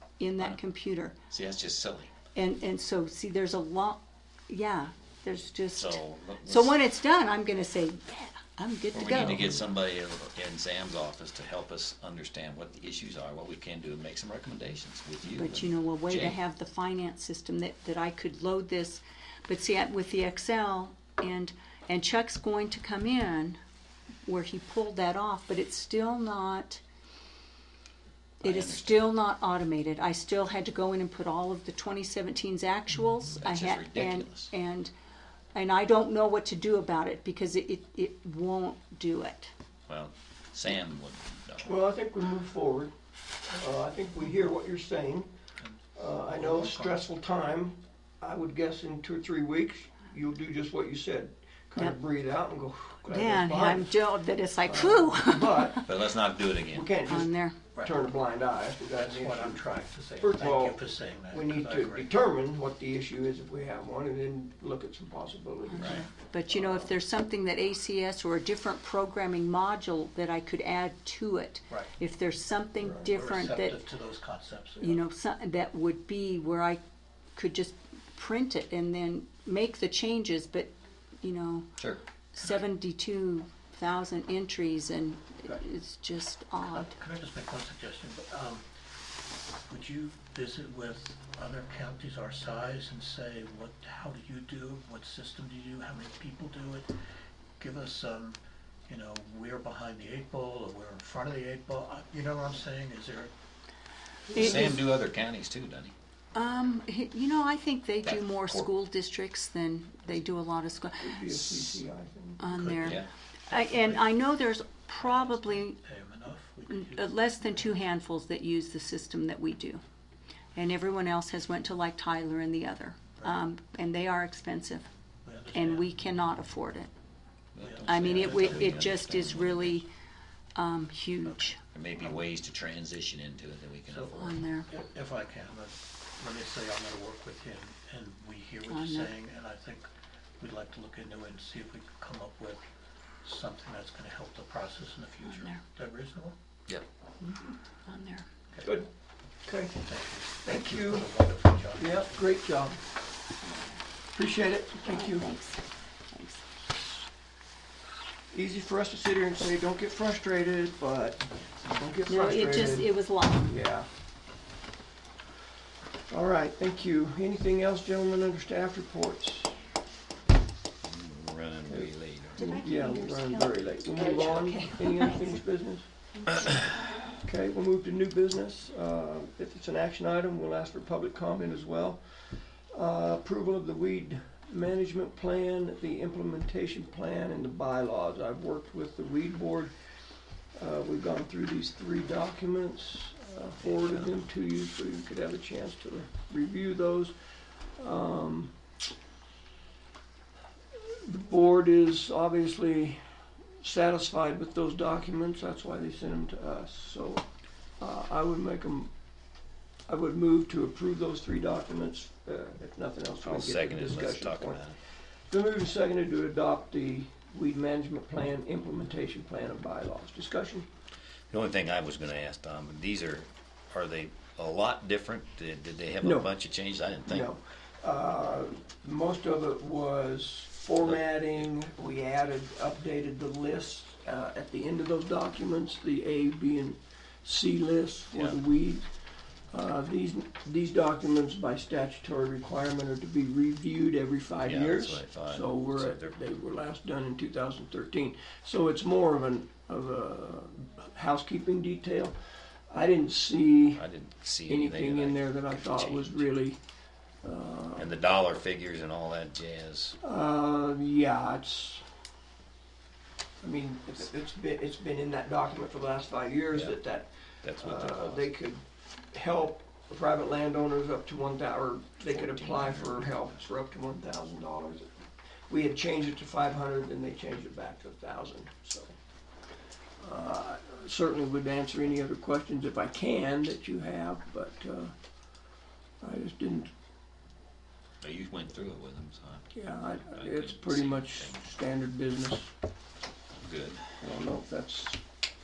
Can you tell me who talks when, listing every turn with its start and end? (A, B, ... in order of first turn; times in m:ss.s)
0:00.2-0:01.2 A
0:01.3-0:02.1 B
0:02.3-0:09.6 A
0:05.8-0:06.8 B
0:08.9-0:16.4 B
0:15.3-0:23.6 A
0:24.2-0:26.8 A
0:28.4-0:29.1 B
0:28.4-0:34.9 A
0:33.4-0:34.5 B
0:35.5-0:39.5 A
0:39.9-0:41.8 B
0:41.6-0:42.9 C
0:43.5-0:45.3 C
0:45.6-0:47.1 D
0:46.0-0:54.0 C
0:53.1-0:55.8 A
0:54.6-0:55.8 C
0:55.8-0:56.9 B
0:56.7-0:59.6 C
0:57.1-0:57.6 A
0:57.8-0:58.1 D
0:59.0-1:02.1 D
1:00.2-1:06.9 C
1:05.7-1:13.8 A
1:05.8-1:06.1 D
1:13.0-1:15.0 D
1:14.8-1:16.8 A
1:17.4-1:21.7 A
1:22.3-1:26.9 A
1:26.7-1:28.6 D
1:29.7-1:36.9 D
1:37.6-1:43.3 D
1:44.3-1:45.9 B
1:44.3-1:44.8 A
1:46.4-1:51.2 A
1:48.1-1:48.7 B
1:51.0-1:52.4 C
1:52.4-1:55.8 A
1:52.5-1:54.1 D
1:52.8-1:53.1 B
1:55.0-1:57.7 D
1:56.7-1:59.8 A
2:00.6-2:04.9 A
2:05.2-2:05.9 D
2:05.5-2:06.9 A
2:07.6-2:09.8 B
2:07.6-2:08.9 D
2:07.9-2:09.9 A
2:10.6-2:11.6 A
2:11.2-2:12.3 D
2:11.7-2:14.4 B
2:13.9-2:19.9 D
2:14.2-2:14.7 A
2:18.7-2:19.1 A
2:20.4-2:22.6 D
2:23.2-2:26.4 D
2:25.2-2:25.6 A
2:27.9-2:28.2 A
2:28.5-2:28.8 D
2:28.6-2:28.9 C
2:29.4-2:31.2 C
2:29.8-2:32.2 D
2:31.8-2:32.8 C
2:33.5-2:33.8 A
2:34.1-2:35.4 C
2:34.8-2:36.4 A
2:38.3-2:43.9 C
2:42.1-2:43.5 A
2:46.1-2:49.6 C
2:50.8-2:52.6 B
2:51.7-2:55.9 C
2:52.4-2:55.4 A
2:56.2-2:56.8 A
2:56.4-2:56.7 B
2:57.2-3:09.7 C
3:10.6-3:17.2 C
3:13.6-3:14.2 B
3:17.8-3:18.6 C
3:20.8-3:23.0 C
3:23.6-3:27.2 C
3:27.8-3:28.9 C
3:29.9-3:34.7 C
3:33.2-3:34.8 B
3:35.3-3:40.7 C
3:41.3-3:47.3 B
3:46.0-3:46.3 C
3:47.1-3:58.8 C
3:59.5-4:12.2 C
4:04.4-4:06.2 B
4:12.7-4:13.8 C
4:13.8-4:16.2 B
4:14.5-4:16.6 C
4:17.2-4:17.9 C
4:17.8-4:20.0 B
4:20.0-4:21.9 C
4:23.4-4:39.0 C
4:26.5-4:26.8 B
4:27.4-4:28.3 B
4:32.0-4:33.3 B
4:40.0-4:44.9 C
4:46.0-4:46.7 C
4:48.0-4:51.4 B
4:49.5-4:52.5 C
4:53.4-4:53.8 B
4:54.0-4:55.0 C